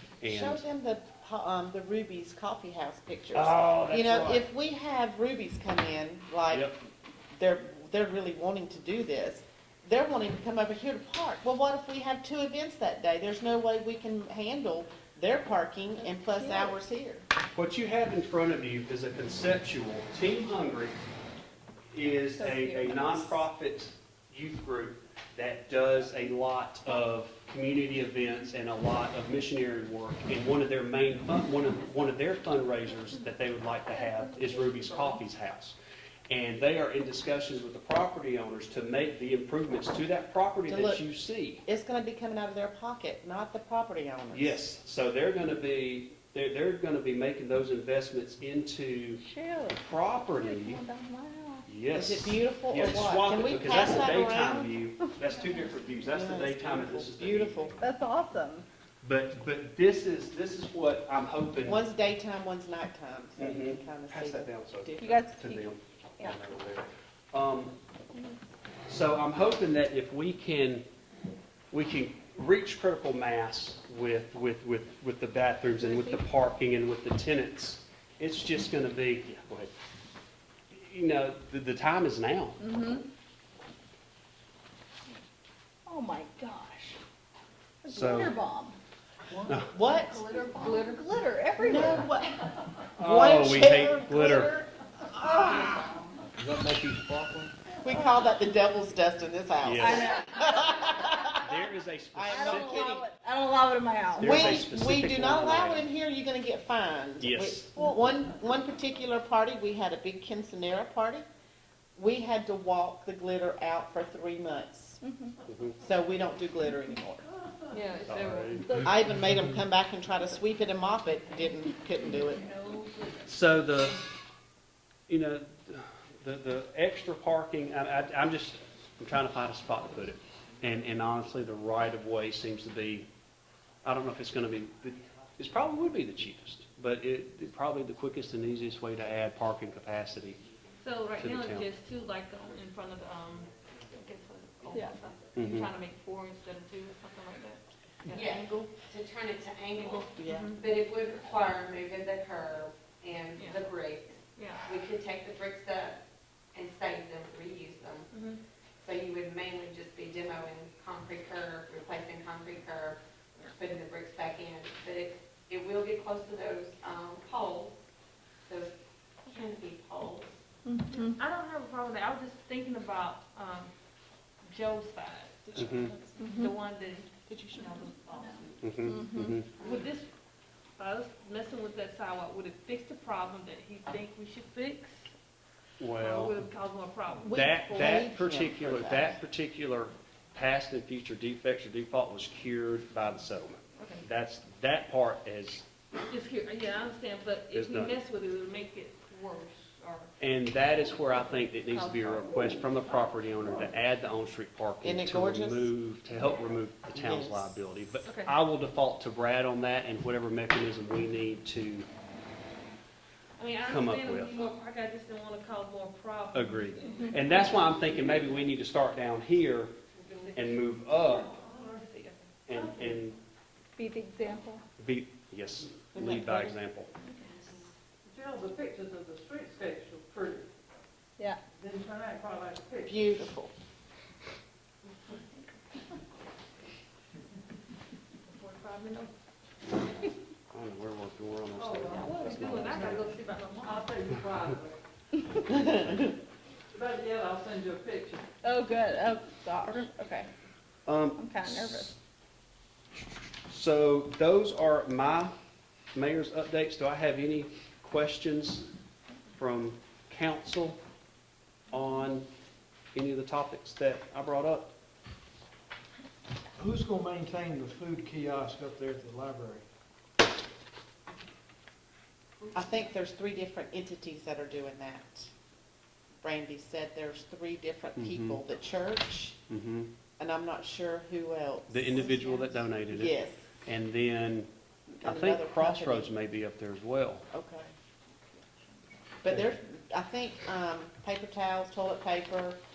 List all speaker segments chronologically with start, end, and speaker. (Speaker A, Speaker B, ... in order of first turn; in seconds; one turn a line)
Speaker A: 0.2-0.6
Speaker B: 0.2-6.8
Speaker A: 3.3-4.5
Speaker A: 6.5-6.8
Speaker B: 7.3-17.2
Speaker C: 16.0-16.8
Speaker A: 17.5-21.0
Speaker A: 21.9-35.8
Speaker C: 22.4-23.5
Speaker A: 36.3-41.6
Speaker B: 40.7-41.0
Speaker B: 41.6-44.6
Speaker A: 44.3-50.8
Speaker C: 49.2-51.7
Speaker A: 51.7-57.8
Speaker B: 51.9-54.7
Speaker B: 56.1-57.8
Speaker C: 57.8-58.7
Speaker A: 59.0-61.9
Speaker B: 61.6-65.1
Speaker A: 63.4-67.7
Speaker C: 65.0-66.4
Speaker A: 68.9-70.9
Speaker A: 71.7-79.7
Speaker C: 75.8-76.2
Speaker A: 80.7-82.6
Speaker C: 82.6-83.1
Speaker C: 85.9-87.0
Speaker C: 87.8-88.8
Speaker A: 87.9-88.4
Speaker B: 89.7-90.3
Speaker C: 90.1-92.1
Speaker B: 91.6-96.0
Speaker A: 93.0-94.5
Speaker D: 96.4-97.5
Speaker B: 97.7-101.6
Speaker A: 99.6-100.1
Speaker C: 99.8-101.4
Speaker A: 101.4-102.9
Speaker B: 102.1-103.1
Speaker C: 102.3-104.6
Speaker A: 104.2-105.9
Speaker B: 104.2-111.3
Speaker A: 107.2-107.7
Speaker B: 112.0-115.0
Speaker C: 115.0-115.4
Speaker A: 115.5-115.8
Speaker B: 115.8-117.3
Speaker E: 117.7-118.9
Speaker A: 118.1-118.7
Speaker C: 118.6-119.0
Speaker B: 118.8-122.5
Speaker C: 122.4-123.3
Speaker A: 123.2-124.0
Speaker A: 125.1-133.1
Speaker A: 133.8-140.4
Speaker E: 140.8-148.7
Speaker A: 141.2-141.7
Speaker C: 144.7-145.1
Speaker A: 145.3-145.7
Speaker F: 148.1-156.0
Speaker E: 150.2-150.6
Speaker E: 153.4-153.6
Speaker E: 154.4-154.8
Speaker F: 156.5-158.1
Speaker E: 158.1-158.4
Speaker F: 158.8-163.0
Speaker F: 163.6-167.8
Speaker F: 168.5-170.4
Speaker C: 170.7-171.2
Speaker E: 170.9-173.7
Speaker E: 174.4-179.0
Speaker A: 175.6-175.9
Speaker C: 175.6-176.6
Speaker C: 177.3-179.5
Speaker A: 178.6-179.5
Speaker E: 179.6-180.1
Speaker E: 180.8-185.1
Speaker A: 185.8-186.4
Speaker E: 185.9-187.9
Speaker B: 187.2-189.2
Speaker A: 187.3-195.7
Speaker E: 193.8-194.1
Speaker E: 196.1-200.1
Speaker A: 197.5-198.0
Speaker A: 200.2-211.9
Speaker E: 201.7-202.7
Speaker B: 204.8-205.7
Speaker B: 206.9-207.5
Speaker E: 208.1-208.3
Speaker E: 213.4-218.2
Speaker A: 213.7-214.4
Speaker A: 216.3-219.7
Speaker E: 220.0-220.6
Speaker A: 220.3-221.4
Speaker E: 221.2-223.0
Speaker A: 222.5-223.2
Speaker C: 223.8-224.6
Speaker A: 224.8-226.9
Speaker B: 225.9-226.6
Speaker F: 227.1-227.7
Speaker G: 228.1-230.5
Speaker G: 231.6-233.0
Speaker B: 232.8-233.5
Speaker E: 238.3-239.1
Speaker A: 240.5-243.0
Speaker G: 241.6-243.0
Speaker E: 241.9-244.0
Speaker G: 243.6-244.8
Speaker B: 245.5-246.1
Speaker G: 246.7-248.3
Speaker C: 248.4-250.3
Speaker A: 250.9-251.8
Speaker C: 251.2-252.0
Speaker A: 253.0-255.3
Speaker A: 255.9-258.7
Speaker A: 259.4-260.8
Speaker A: 261.7-262.3
Speaker A: 262.9-264.7
Speaker D: 266.6-269.6
Speaker B: 272.5-275.3
Speaker B: 276.2-279.4
Speaker A: 278.0-278.4
Speaker A: 279.5-279.9
Speaker B: 280.2-283.5
Speaker A: 281.7-283.1
Speaker A: 283.6-284.5
Speaker B: 284.9-286.1
Speaker A: 285.0-287.3
Speaker B: 287.3-287.7
Speaker B: 289.2-292.6